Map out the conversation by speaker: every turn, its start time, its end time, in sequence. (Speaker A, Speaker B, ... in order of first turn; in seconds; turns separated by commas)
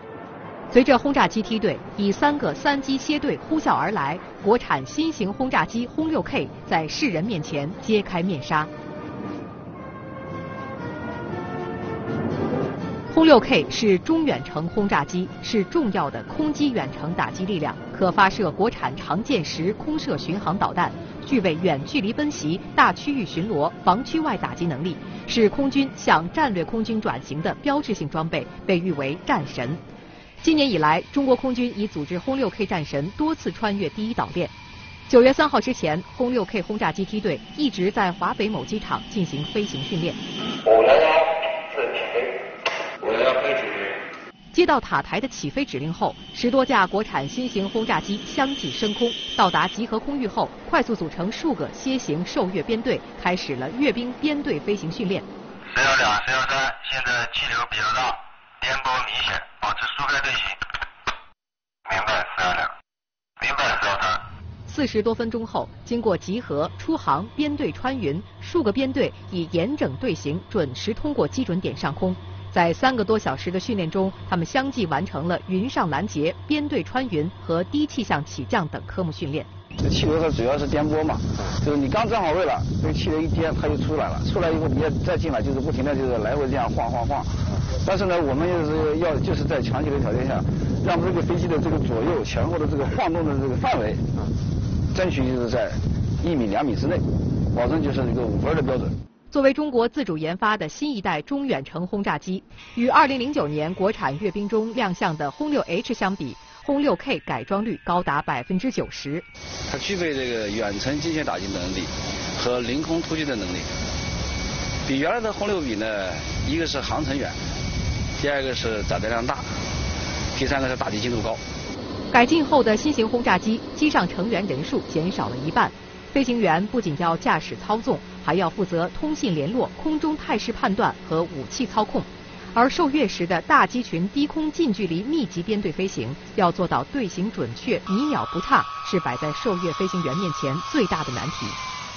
Speaker A: 0.7-8.7, Speaker A: 13.1-29.8, Speaker A: 30.4-34.5, Speaker A: 35.1-40.2, Speaker B: 43.1-43.9, Speaker A: 44.5-55.3, Speaker B: 55.7-60.6, Speaker B: 61.9-62.7, Speaker B: 63.4-64.3, Speaker A: 64.7-79.5, Speaker C: 79.8-87.3, Speaker C: 87.8-94.0, Speaker C: 94.9-98.9, Speaker A: 99.3-109.2, Speaker C: 109.7-113.7, Speaker C: 114.9-117.4, Speaker C: 118.2-119.5, Speaker C: 120.3-121.4, Speaker A: 122.1-141.6